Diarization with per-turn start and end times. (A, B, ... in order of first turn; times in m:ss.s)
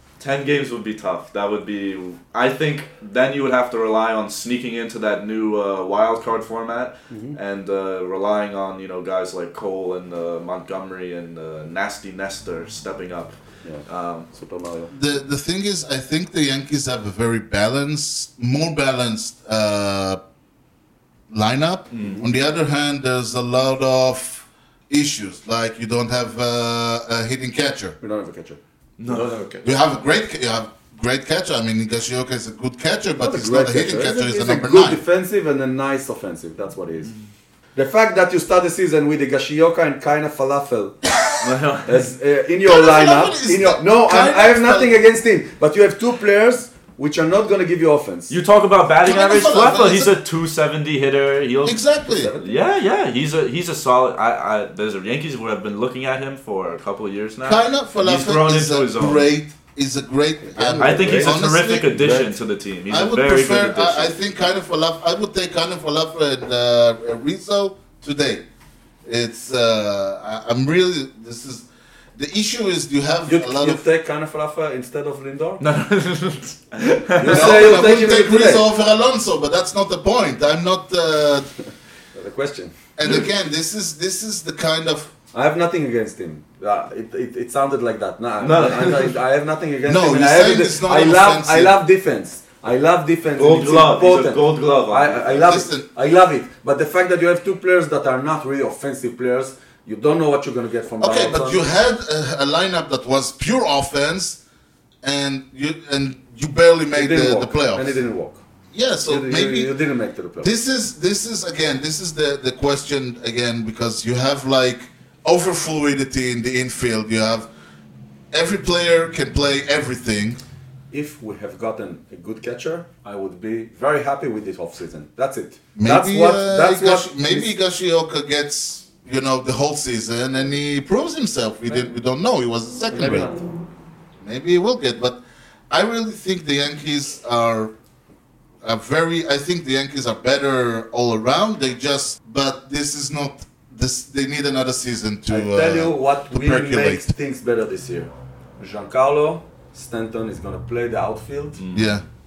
0:00.2-0:14.3 A
0:07.1-0:07.4 B
0:13.6-0:14.9 B
0:14.9-0:20.2 C
0:21.3-0:28.0 C
0:21.9-0:22.2 A
0:22.0-0:22.3 B
0:28.0-0:29.7 B
0:29.0-0:29.4 A
0:29.6-0:35.0 C
0:33.2-0:37.1 B
0:37.8-0:41.0 B
0:41.4-0:42.0 A
0:41.9-0:48.4 B
0:42.6-0:44.9 C
0:48.3-0:51.8 A
0:49.0-0:50.1 C
0:51.6-0:52.3 C
0:52.1-0:52.6 B
0:52.4-0:59.3 A
0:57.4-1:02.2 C
1:00.4-1:01.4 B
1:00.8-1:04.1 A
1:01.9-1:02.3 B
1:02.9-1:08.4 C
1:09.0-1:13.8 C
1:13.3-1:15.6 B
1:15.6-1:17.8 A
1:17.2-1:18.6 B
1:17.2-1:21.5 C
1:22.2-1:22.7 B
1:23.0-1:25.1 C
1:25.3-1:41.7 B
1:28.4-1:29.1 A
1:29.9-1:31.8 C
1:33.4-1:35.5 A
1:35.4-1:35.9 C
1:41.0-1:44.4 C
1:45.0-1:48.0 C
1:47.0-1:48.4 B
1:48.7-1:49.7 C
1:49.1-1:50.5 B
1:50.4-1:57.5 C
1:58.3-2:00.4 C
2:00.9-2:07.5 B
2:05.8-2:13.4 C
2:12.9-2:13.5 B
2:14.2-2:15.2 C
2:15.7-2:17.7 C
2:18.6-2:27.1 C
2:25.3-2:31.6 B
2:31.6-2:32.0 A
2:31.7-2:32.0 C